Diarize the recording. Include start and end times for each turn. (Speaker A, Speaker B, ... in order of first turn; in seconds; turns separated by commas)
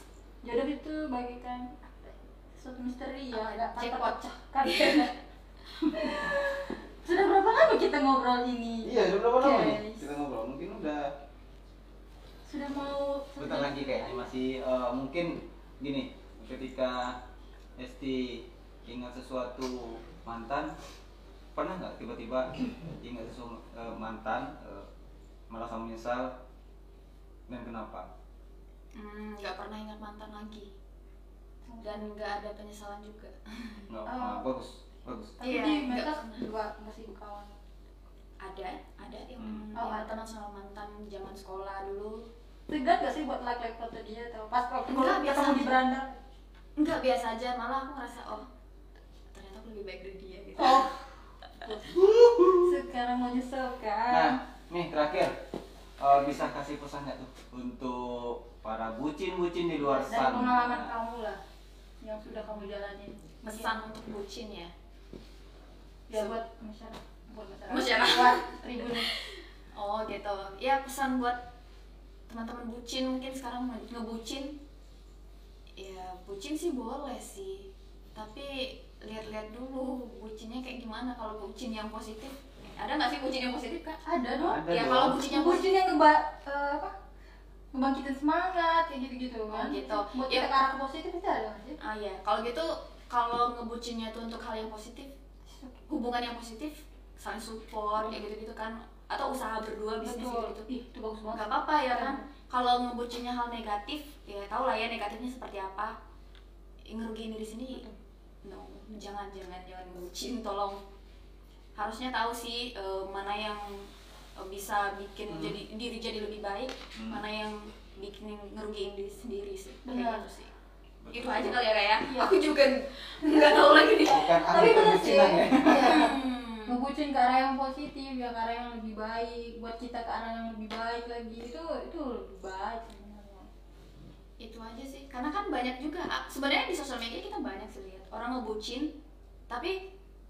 Speaker A: 0.4-5.1, Speaker B: 3.3-5.1, Speaker A: 5.8-10.1, Speaker C: 8.8-11.1, Speaker A: 12.4-14.3, Speaker C: 13.4-17.2, Speaker C: 17.8-20.7, Speaker C: 21.6-24.9, Speaker C: 25.5-26.4, Speaker C: 27.5-28.1, Speaker B: 28.9-30.7, Speaker A: 31.7-32.1, Speaker B: 31.8-33.9, Speaker C: 33.9-35.4, Speaker A: 34.1-34.4, Speaker A: 35.4-37.5, Speaker B: 35.4-36.5, Speaker B: 38.4-42.3, Speaker C: 39.4-39.6, Speaker A: 39.8-40.1, Speaker A: 42.7-46.2, Speaker B: 44.9-45.7, Speaker B: 46.8-48.5, Speaker B: 49.3-50.9, Speaker A: 50.6-51.1, Speaker A: 51.6-54.4, Speaker C: 51.9-52.8, Speaker C: 54.1-55.3, Speaker C: 56.0-60.9, Speaker A: 59.8-61.4, Speaker A: 62.0-63.8, Speaker B: 63.4-64.7, Speaker A: 66.1-69.1, Speaker B: 67.7-71.4, Speaker B: 72.3-74.5, Speaker B: 75.8-84.0, Speaker A: 84.0-86.9, Speaker C: 84.4-85.2, Speaker B: 84.7-85.6, Speaker A: 87.7-91.8, Speaker B: 89.5-90.5, Speaker B: 91.8-95.1, Speaker A: 95.5-95.8, Speaker B: 95.9-100.7, Speaker A: 100.0-102.2, Speaker B: 101.3-106.0, Speaker B: 106.9-107.8, Speaker A: 107.7-108.0, Speaker B: 108.4-110.8, Speaker B: 111.8-120.5, Speaker C: 115.3-115.6, Speaker C: 117.0-117.2, Speaker A: 119.9-120.3, Speaker C: 121.0-121.7, Speaker B: 121.1-126.8, Speaker A: 122.0-122.3, Speaker A: 123.2-123.8, Speaker C: 124.0-126.2, Speaker A: 124.5-133.5, Speaker B: 134.4-138.9, Speaker B: 139.5-139.8